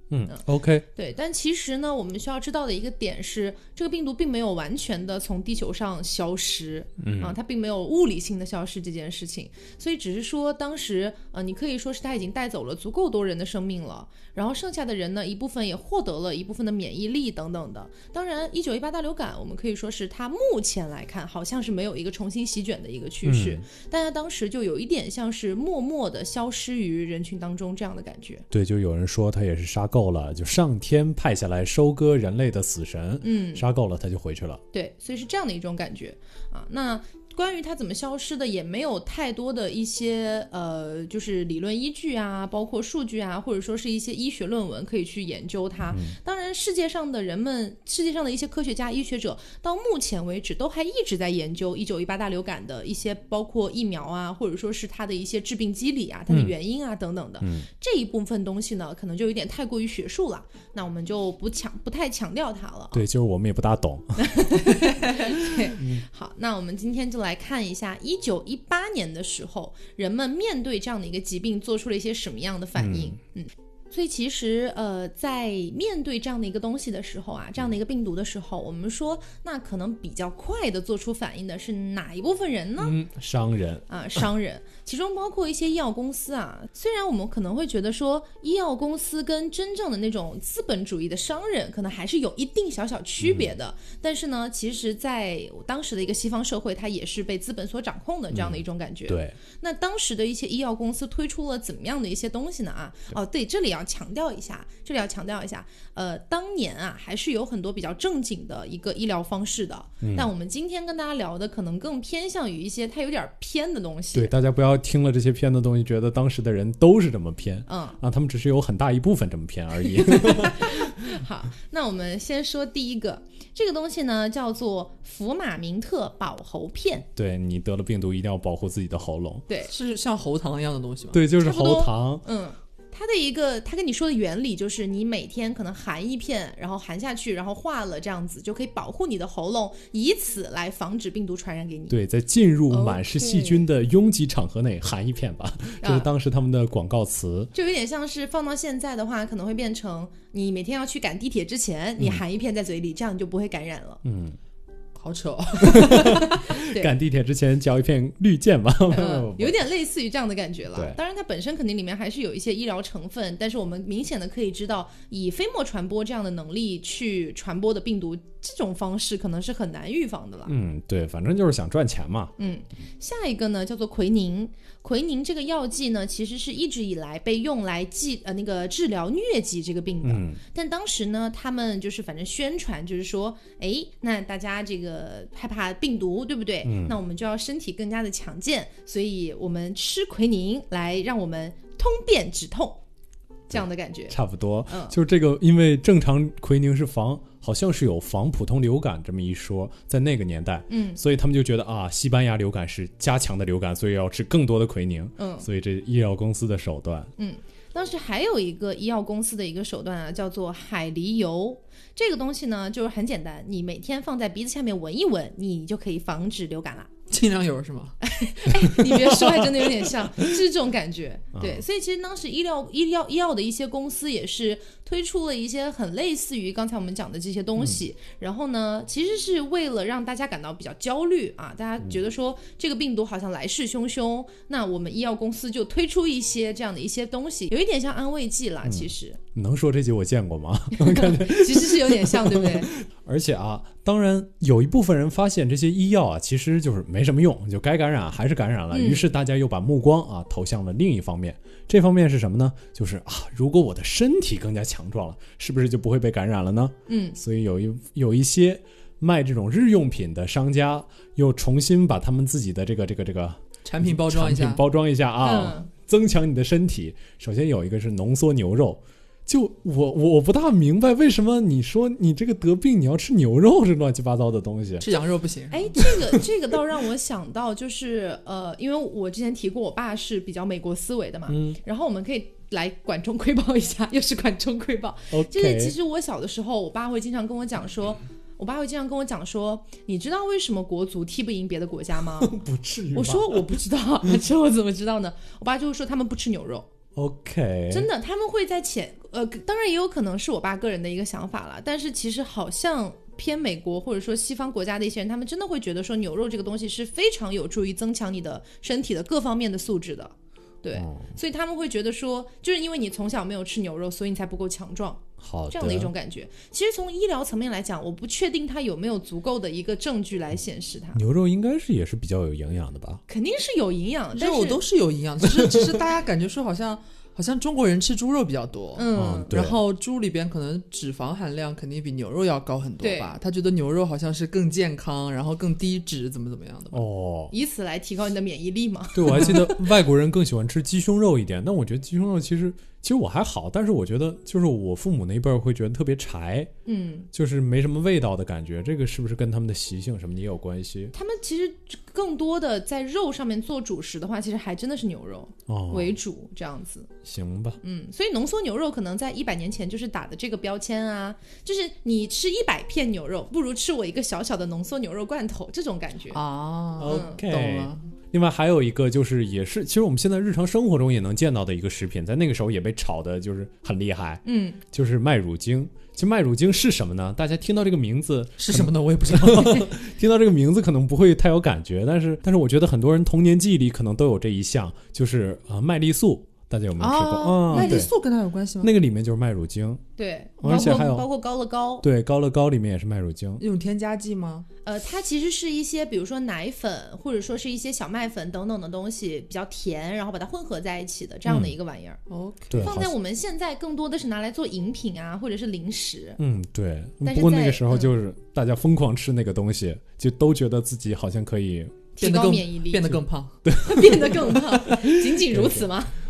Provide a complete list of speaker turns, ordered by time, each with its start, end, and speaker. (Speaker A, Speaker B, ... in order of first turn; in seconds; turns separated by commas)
Speaker A: 0.1-0.9, Speaker B: 0.9-28.4, Speaker A: 7.0-7.4, Speaker A: 23.2-23.6, Speaker A: 28.5-34.6, Speaker B: 33.2-33.7, Speaker B: 34.7-63.0, Speaker A: 45.9-46.2, Speaker A: 56.3-56.5, Speaker A: 57.4-57.7, Speaker A: 62.9-66.0, Speaker B: 64.2-83.0, Speaker A: 72.8-73.2, Speaker A: 82.8-83.8, Speaker B: 83.9-114.3, Speaker A: 93.2-93.5, Speaker A: 98.3-99.4, Speaker A: 110.0-110.3, Speaker A: 114.1-121.2, Speaker B: 117.7-118.0, Speaker B: 120.0-127.0, Speaker A: 127.2-129.5, Speaker C: 129.7-131.2, Speaker A: 131.1-132.2, Speaker B: 131.4-142.0, Speaker A: 141.9-147.5, Speaker B: 142.7-143.7, Speaker B: 145.8-146.1, Speaker B: 147.5-154.0, Speaker A: 154.0-154.4, Speaker C: 155.0-156.2, Speaker A: 155.6-159.6, Speaker B: 155.7-156.9, Speaker B: 158.9-170.5, Speaker A: 170.5-172.3, Speaker B: 172.4-192.8, Speaker A: 180.0-180.4, Speaker A: 186.6-187.0, Speaker B: 193.5-195.0, Speaker A: 193.5-207.1, Speaker B: 200.7-201.0, Speaker B: 205.2-205.5, Speaker B: 207.2-216.9, Speaker C: 217.1-218.0, Speaker B: 218.0-239.2, Speaker C: 219.0-219.9, Speaker A: 221.3-221.7, Speaker A: 238.7-275.0, Speaker B: 240.8-242.7, Speaker B: 248.7-249.1, Speaker B: 256.9-257.2, Speaker C: 263.6-264.6, Speaker B: 265.2-265.7, Speaker C: 274.8-275.8, Speaker B: 275.5-292.3, Speaker A: 275.8-276.2, Speaker A: 281.3-281.6, Speaker A: 285.1-285.8, Speaker A: 292.1-293.4, Speaker B: 292.9-296.7, Speaker A: 296.9-297.9, Speaker B: 297.7-321.0, Speaker A: 310.7-311.1, Speaker A: 315.2-315.9, Speaker A: 320.9-323.0, Speaker B: 323.1-324.6, Speaker C: 324.1-336.8, Speaker A: 325.3-325.8, Speaker B: 328.8-329.3, Speaker A: 328.9-329.6, Speaker B: 332.8-333.2, Speaker A: 336.7-337.3, Speaker B: 337.3-339.7, Speaker A: 338.9-346.5, Speaker C: 339.1-339.5, Speaker B: 346.7-347.1, Speaker A: 347.1-350.9, Speaker B: 350.9-356.9, Speaker A: 355.5-356.0, Speaker A: 357.0-357.6, Speaker B: 357.6-366.2, Speaker C: 366.1-367.8, Speaker A: 366.8-387.9, Speaker B: 366.9-367.2, Speaker B: 374.2-374.6, Speaker C: 378.4-379.7, Speaker C: 386.8-388.7, Speaker B: 387.5-387.9, Speaker A: 388.6-389.8, Speaker B: 390.0-391.8, Speaker A: 390.4-391.1, Speaker A: 391.8-393.4, Speaker C: 393.4-394.5, Speaker B: 394.7-402.0, Speaker A: 401.3-401.6, Speaker C: 402.1-402.7, Speaker A: 402.5-402.9, Speaker B: 402.6-406.2, Speaker A: 406.2-411.9, Speaker B: 407.0-407.9, Speaker B: 412.0-412.9, Speaker C: 412.0-413.4, Speaker A: 412.9-415.7, Speaker B: 413.6-415.9